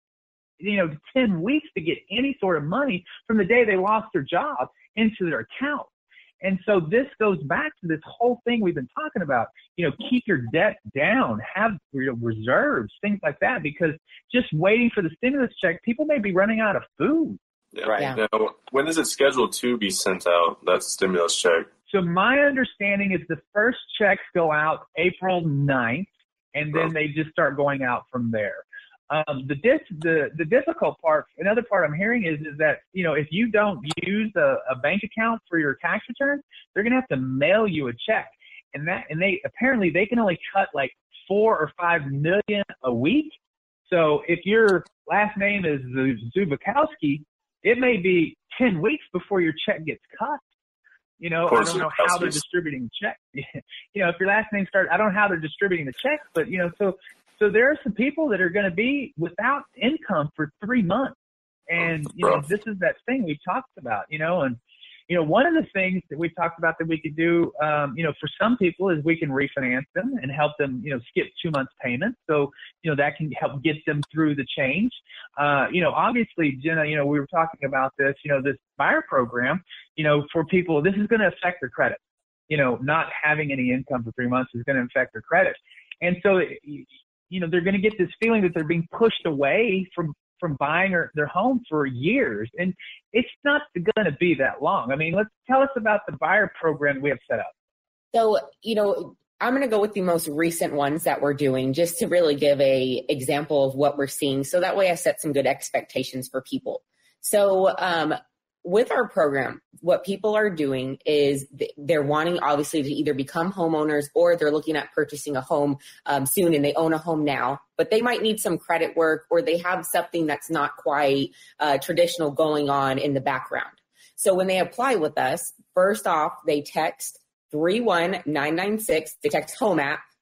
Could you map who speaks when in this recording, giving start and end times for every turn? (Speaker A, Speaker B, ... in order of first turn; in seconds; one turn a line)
Speaker A: 0.6-5.9
Speaker A: 6.4-17.4
Speaker B: 17.7-21.7
Speaker C: 18.0-18.2
Speaker A: 21.9-43.4
Speaker A: 43.9-50.4
Speaker A: 51.2-61.2
Speaker B: 51.5-52.4
Speaker A: 61.7-97.5
Speaker B: 61.8-62.5
Speaker C: 98.1-130.0